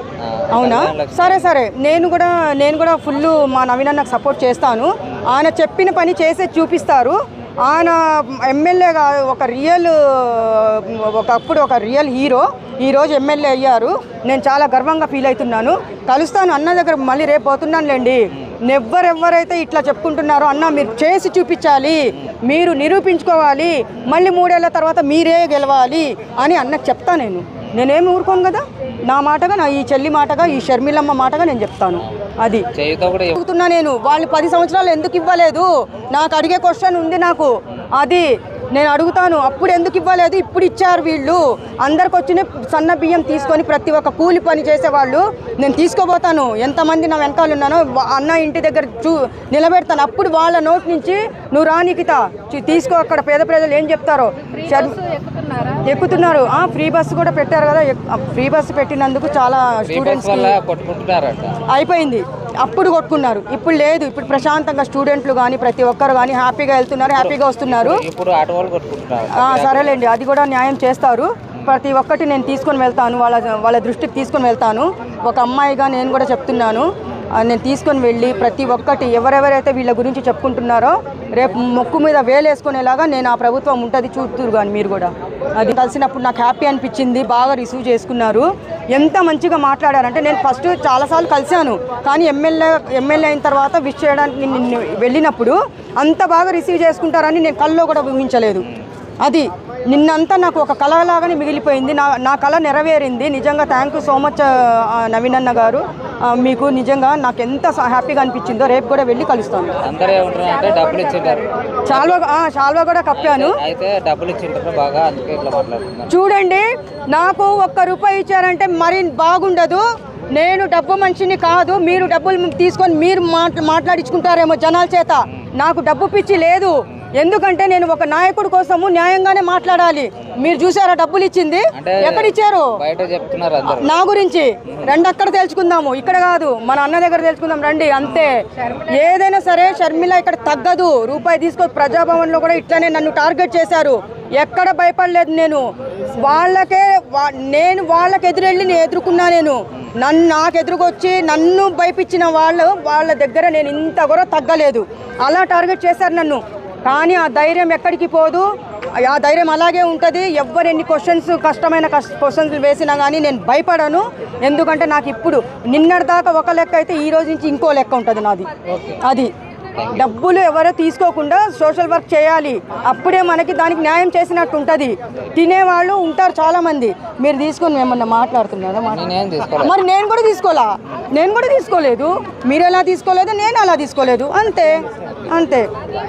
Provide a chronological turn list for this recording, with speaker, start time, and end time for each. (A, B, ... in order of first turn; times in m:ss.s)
0:00.2-0:01.5 A
0:00.5-0:32.7 B
0:32.7-0:33.4 A
0:33.3-0:55.0 B
0:54.4-0:56.7 C
0:55.8-1:00.5 B
0:59.8-1:01.6 A
1:01.7-1:08.0 B
1:07.1-1:10.0 A
1:09.3-1:38.6 B
1:39.2-1:49.8 B
1:49.8-1:52.2 A
1:50.0-1:51.7 C
1:51.8-1:53.6 B
1:53.1-1:56.2 A
1:56.1-2:12.8 B
2:11.7-2:13.9 A
2:13.7-2:25.6 B
2:14.7-2:15.0 A
2:18.0-2:18.3 A
2:18.4-2:20.0 C
2:26.2-2:38.4 B
2:39.0-2:48.5 B
2:48.6-2:49.0 A
2:49.0-2:49.3 B
2:49.7-2:50.1 A
2:49.9-2:59.1 B
2:58.9-2:59.8 A
2:59.6-3:05.7 B